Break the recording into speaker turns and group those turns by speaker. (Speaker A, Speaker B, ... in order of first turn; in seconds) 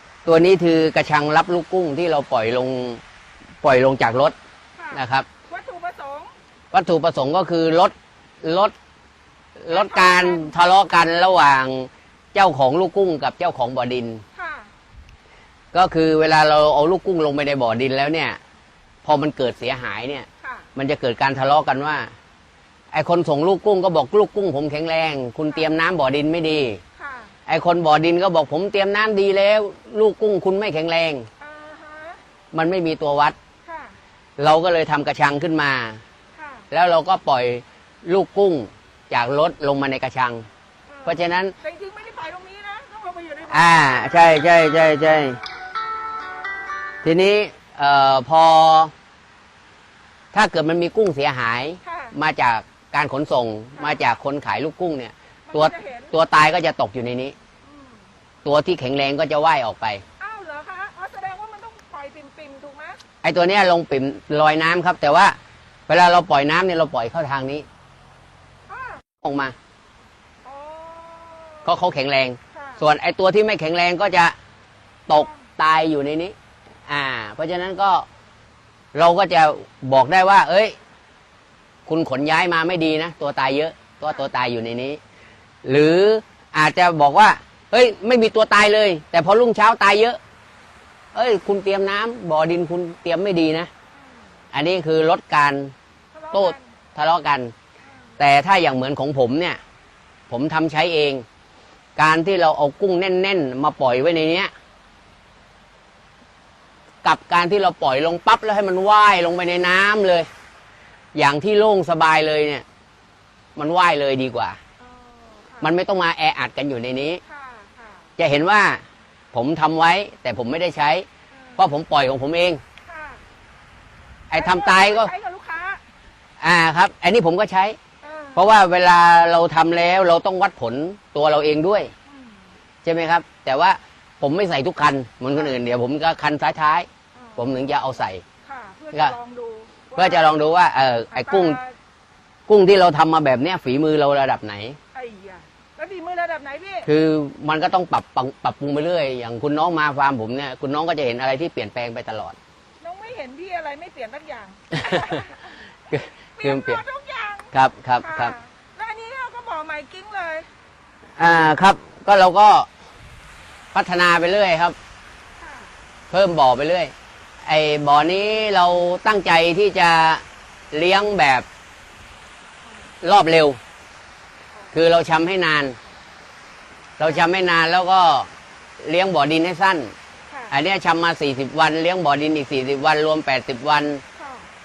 Speaker A: 0.2-3.0, 3.6-4.3, 4.9-5.3, 6.7-8.7, 9.6-14.2, 15.7-18.4, 19.0-22.1, 22.9-26.8, 27.5-31.3, 32.5-33.4, 34.4-36.0, 36.7-40.5, 41.0-41.5, 43.5-45.4, 47.0-48.9, 50.3-57.4, 58.4-60.0, 63.2-65.4, 65.9-67.7, 69.2-69.5, 71.7-74.3, 75.1-76.3, 76.9-78.0, 78.9-80.8, 81.9-85.0, 85.6-90.2, 91.2-93.7, 94.5-95.7, 96.3-97.5, 98.2-99.6, 100.3-101.2, 102.0-104.5, 107.0-110.3, 111.2-112.7, 113.6-114.6, 115.6-117.2, 118.2-118.8, 119.3-121.1, 121.6-122.6, 124.3-125.1, 126.4-127.8, 128.4-131.9, 132.8-138.2, 139.9-141.6, 142.5-144.8, 146.9-152.4, 154.7-155.2, 155.9-156.8, 157.5-158.3, 161.2-162.7, 163.7-164.8, 166.1-166.9, 167.4-171.5, 173.0-173.6, 174.7-175.8, 177.0-178.3, 178.8-179.9, 180.5-184.0
Speaker B: 4.8-6.3, 9.7-10.5, 14.3-14.7, 20.4-20.7, 27.0-27.3, 31.4-32.2, 33.6-34.0, 36.4-36.7, 40.9-44.3, 51.8-52.2, 53.8-54.0, 55.5-56.1, 57.6-58.1, 60.2-63.0, 68.7-69.0, 70.4-71.7, 72.5-72.8, 75.1-75.5, 93.9-94.3, 96.1-96.7, 97.8-98.1, 114.8-115.8, 117.3-118.1, 121.3-121.6, 122.8-123.2, 124.3-125.8, 128.0-128.4, 132.1-132.5, 137.2-137.7, 138.4-140.4, 141.1-141.8, 144.9-146.9, 152.8-160.5, 165.4-165.8, 180.3-180.6, 184.2-184.5